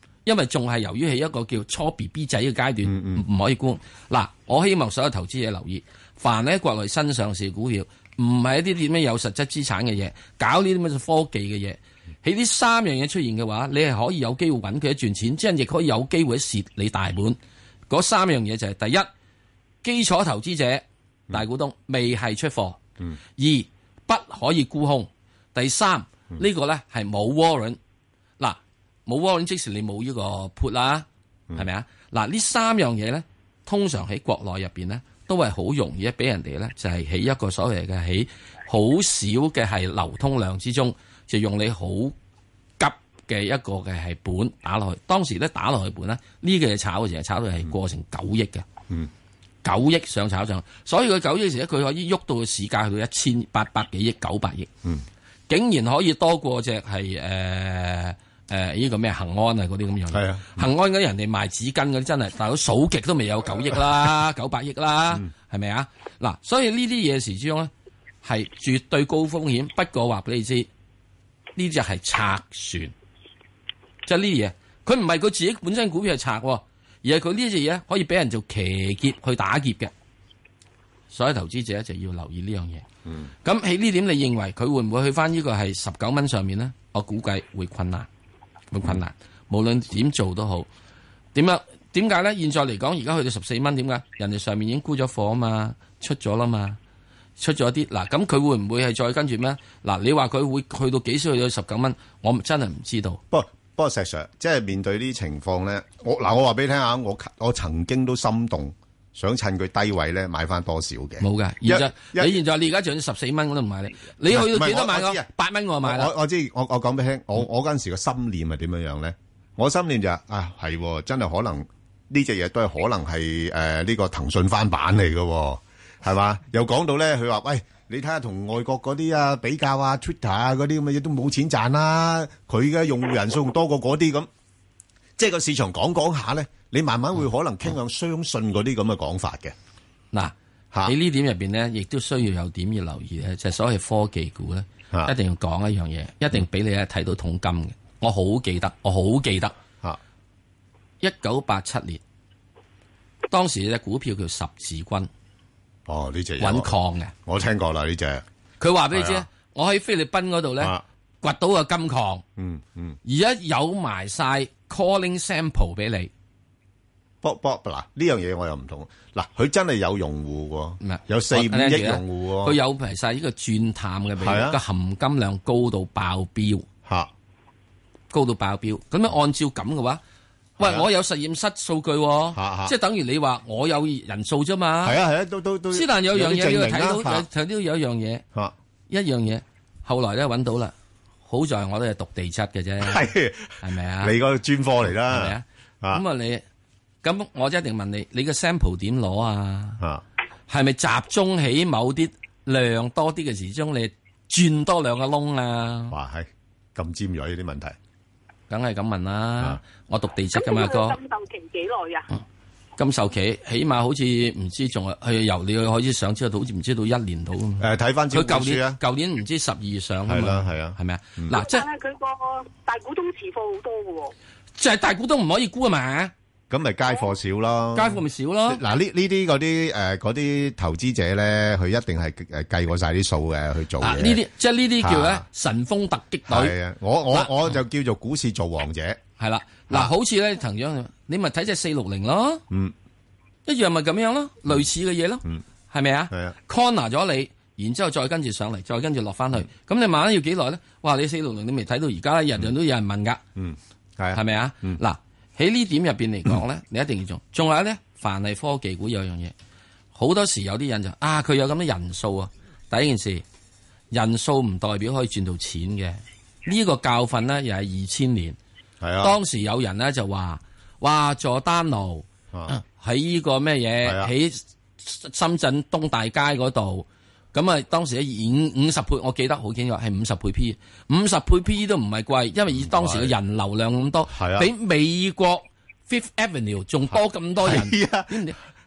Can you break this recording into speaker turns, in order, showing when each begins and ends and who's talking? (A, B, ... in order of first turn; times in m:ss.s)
0:00.2-0:17.4 A
0:02.8-0:03.2 B
0:17.9-0:19.1 A
0:19.8-0:22.8 A
0:23.4-0:27.8 A
0:28.4-0:42.1 A
0:42.8-0:48.6 A
0:49.6-0:54.7 A
0:55.5-1:07.7 A
1:00.1-1:00.7 B
1:08.2-1:10.7 A
1:11.6-1:12.9 A
1:14.0-1:19.9 A
1:21.1-1:22.8 A
1:23.4-1:28.1 A
1:28.7-1:30.7 A
1:31.3-1:36.8 A
1:37.4-1:43.2 A
1:43.3-1:52.4 B
1:51.2-1:56.1 A
1:54.2-1:55.3 B
1:55.8-2:14.3 B
2:15.2-2:19.5 B
2:20.8-2:29.5 A
2:31.0-2:32.0 A
2:33.3-2:35.1 A
2:35.9-2:36.7 B
2:36.4-2:37.1 A
2:37.2-2:38.2 B
2:38.6-2:42.2 A
2:38.9-2:39.2 B
2:42.4-2:43.0 B
2:43.0-2:46.1 A
2:47.2-2:52.6 B
2:50.8-2:56.7 A
2:54.2-2:54.6 B
2:56.8-2:57.1 B
2:58.1-3:00.0 A
3:00.6-3:05.0 A
3:02.3-3:02.7 B
3:04.8-3:07.3 B
3:05.7-3:08.2 A
3:08.9-3:10.7 A
3:11.2-3:13.0 A
3:12.8-3:16.0 B
3:13.6-3:14.2 A
3:14.9-3:16.4 A
3:17.0-3:19.8 A
3:20.5-3:25.9 A
3:25.9-3:27.7 B
3:28.5-3:31.0 A
3:30.3-3:32.1 C
3:32.8-3:41.6 A
3:37.6-3:38.8 B
3:40.1-3:41.4 B
3:41.3-3:44.1 C
3:44.6-3:46.1 A
3:46.5-3:54.2 B
3:47.7-3:48.6 A
3:53.8-3:56.6 A
3:54.8-3:55.2 B
3:56.3-3:59.0 B
3:57.1-3:57.5 A
3:59.2-4:02.4 A
4:03.4-4:13.2 A
4:13.4-4:14.8 B
4:14.1-4:19.3 A
4:19.9-4:23.2 A
4:23.9-4:28.4 A
4:28.8-4:29.2 B
4:29.0-4:48.4 A
4:33.8-4:34.1 B
4:42.5-4:43.1 B
4:44.1-4:44.5 B
4:47.4-4:48.2 B